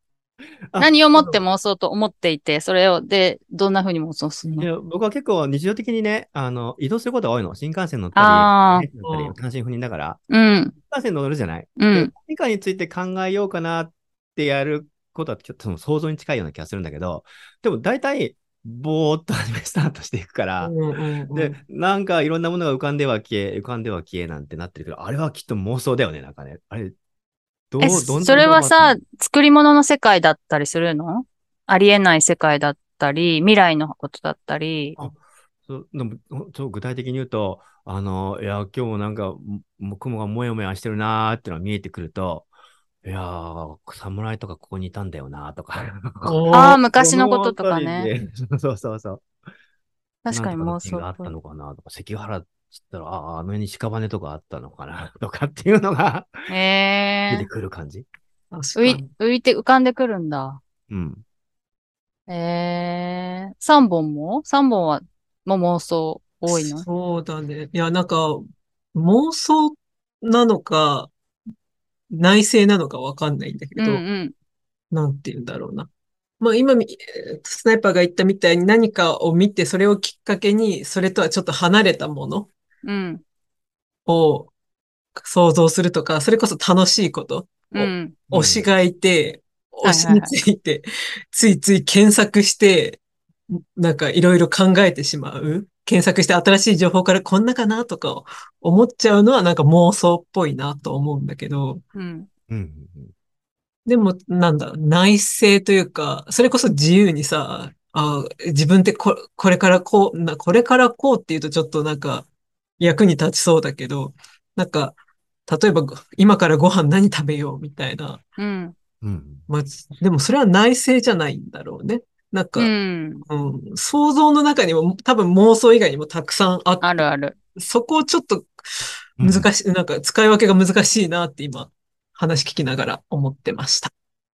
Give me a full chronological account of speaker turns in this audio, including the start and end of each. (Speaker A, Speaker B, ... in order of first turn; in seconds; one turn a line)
Speaker A: 0.7-1.4
Speaker B: 0.8-4.7
Speaker A: 4.6-10.2
Speaker B: 8.1-8.9
Speaker C: 9.0-9.3
Speaker B: 10.3-10.7
Speaker A: 10.9-20.8
Speaker B: 11.8-12.1
Speaker C: 20.6-21.6
Speaker A: 21.3-26.9
Speaker A: 27.7-29.0
Speaker B: 27.8-35.0
Speaker C: 27.8-28.6
Speaker A: 35.0-42.5
Speaker A: 43.0-46.4
Speaker C: 46.2-46.9
Speaker B: 46.5-48.1
Speaker A: 46.9-49.2
Speaker B: 50.2-51.3
Speaker A: 50.3-56.5
Speaker B: 56.5-57.5
Speaker A: 57.3-58.0
Speaker C: 58.5-59.1
Speaker B: 58.8-60.6
Speaker A: 60.9-61.2
Speaker B: 62.3-66.8
Speaker C: 66.5-68.4
Speaker C: 68.9-71.1
Speaker C: 72.1-74.0
Speaker B: 73.8-74.3
Speaker C: 74.9-75.9
Speaker C: 76.4-82.5
Speaker B: 82.8-83.2
Speaker C: 84.1-84.5
Speaker C: 85.2-101.8
Speaker B: 87.7-88.2
Speaker A: 88.3-88.7
Speaker B: 89.8-90.3
Speaker B: 101.9-102.3
Speaker A: 102.5-103.1
Speaker C: 103.8-112.3
Speaker C: 112.8-118.2
Speaker B: 118.4-118.7
Speaker A: 119.0-119.5
Speaker C: 119.5-122.7
Speaker B: 122.5-123.2
Speaker C: 123.2-127.0
Speaker B: 126.8-127.3
Speaker C: 127.5-133.9
Speaker A: 129.2-129.5